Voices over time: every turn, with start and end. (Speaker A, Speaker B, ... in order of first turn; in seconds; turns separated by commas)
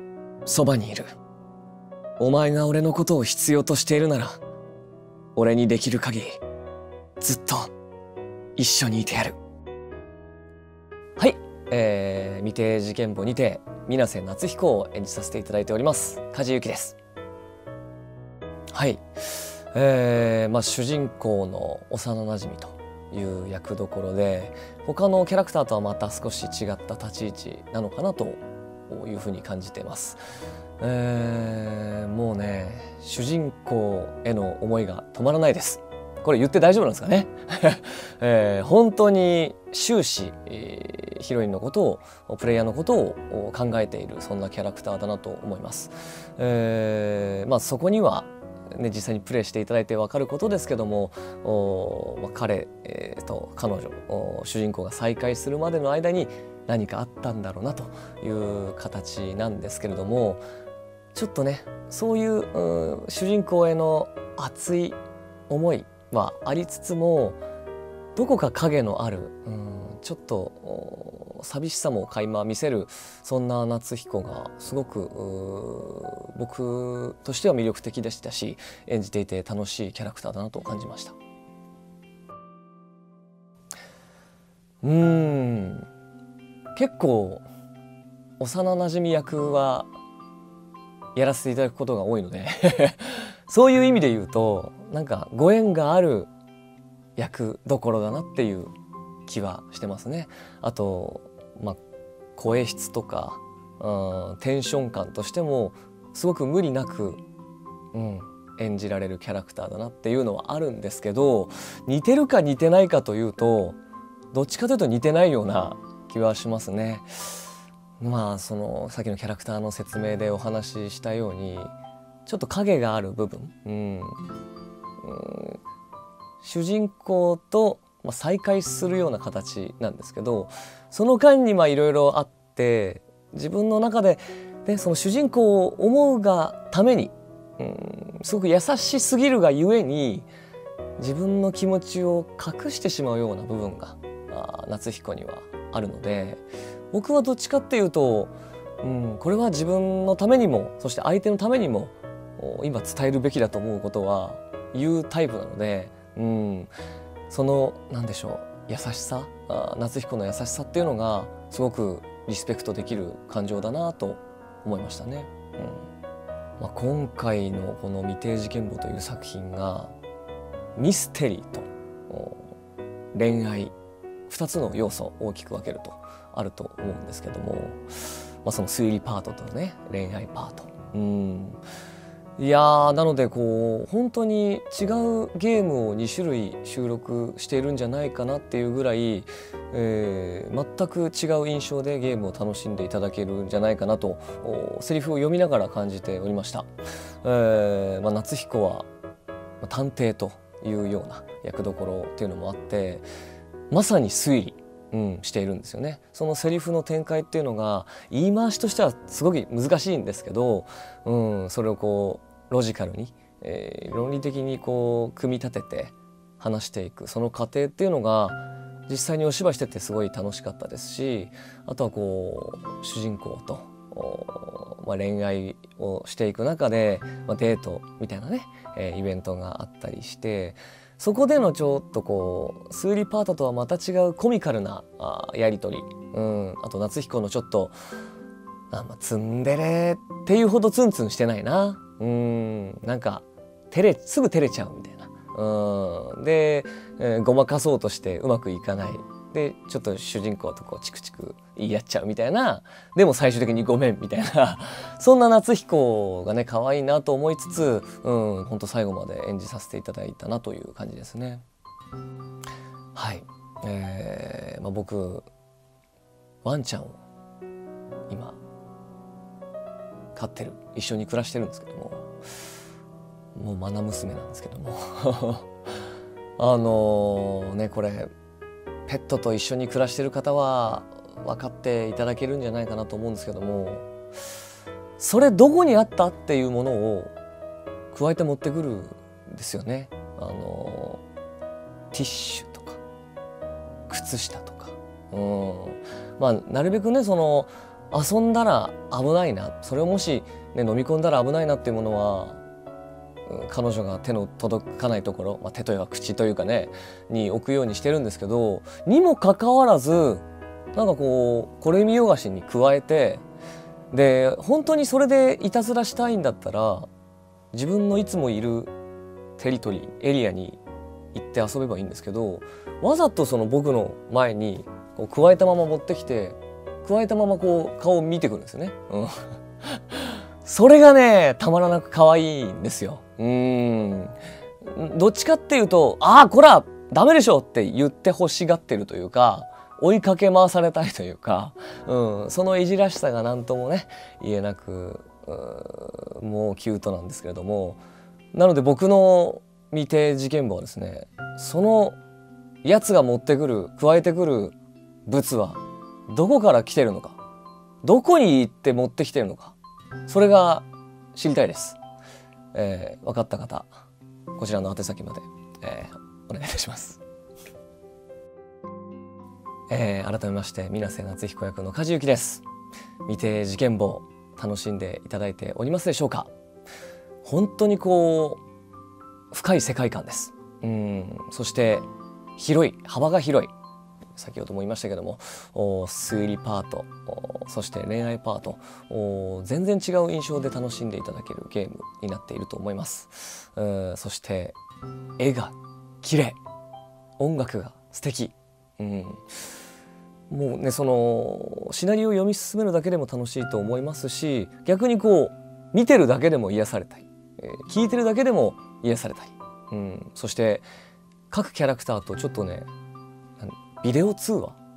Speaker A: 0.5-1.1, Speaker A: 2.2-4.4, Speaker A: 5.3-6.4, Speaker A: 7.2-7.7, Speaker A: 8.6-9.4, Speaker A: 11.2-17.0, Speaker A: 18.7-30.2, Speaker A: 30.8-60.4, Speaker A: 61.1-65.0, Speaker A: 65.5-67.4, Speaker A: 68.2-81.2, Speaker A: 84.8-85.9, Speaker A: 86.8-87.5, Speaker A: 88.4-89.9, Speaker A: 91.1-96.3, Speaker A: 97.2-98.7, Speaker A: 99.2-101.8, Speaker A: 102.4-107.2, Speaker A: 107.9-113.8, Speaker A: 114.3-117.5, Speaker A: 118.0-121.7, Speaker A: 122.2-124.3, Speaker A: 125.0-125.6, Speaker A: 126.4-140.3, Speaker A: 141.0-156.7, Speaker A: 157.3-165.8, Speaker A: 166.6-169.9, Speaker A: 170.8-172.5, Speaker A: 173.1-173.7, Speaker A: 174.3-181.6, Speaker A: 182.4-196.7, Speaker A: 197.2-198.9, Speaker A: 199.6-203.1, Speaker A: 203.7-237.7, Speaker A: 238.7-261.4, Speaker A: 262.9-265.3, Speaker A: 266.4-267.0, Speaker A: 268.1-268.4, Speaker A: 270.1-272.1, Speaker A: 273.4-275.5, Speaker A: 276.4-278.1, Speaker A: 278.9-283.9, Speaker A: 285.0-287.1, Speaker A: 287.9-291.0, Speaker A: 291.9-292.8, Speaker A: 293.9-302.4, Speaker A: 303.3-313.2, Speaker A: 313.9-316.9, Speaker A: 317.5-318.7, Speaker A: 319.4-320.6, Speaker A: 321.1-347.8, Speaker A: 348.3-352.0, Speaker A: 352.6-354.6, Speaker A: 355.1-357.2, Speaker A: 357.8-359.6, Speaker A: 360.1-361.8, Speaker A: 362.5-363.7, Speaker A: 364.4-367.0, Speaker A: 369.7-372.4, Speaker A: 373.1-376.3, Speaker A: 377.2-378.4, Speaker A: 379.3-383.5, Speaker A: 384.1-394.6, Speaker A: 395.2-396.4, Speaker A: 397.2-399.2, Speaker A: 400.3-410.7, Speaker A: 411.3-412.7, Speaker A: 413.4-414.6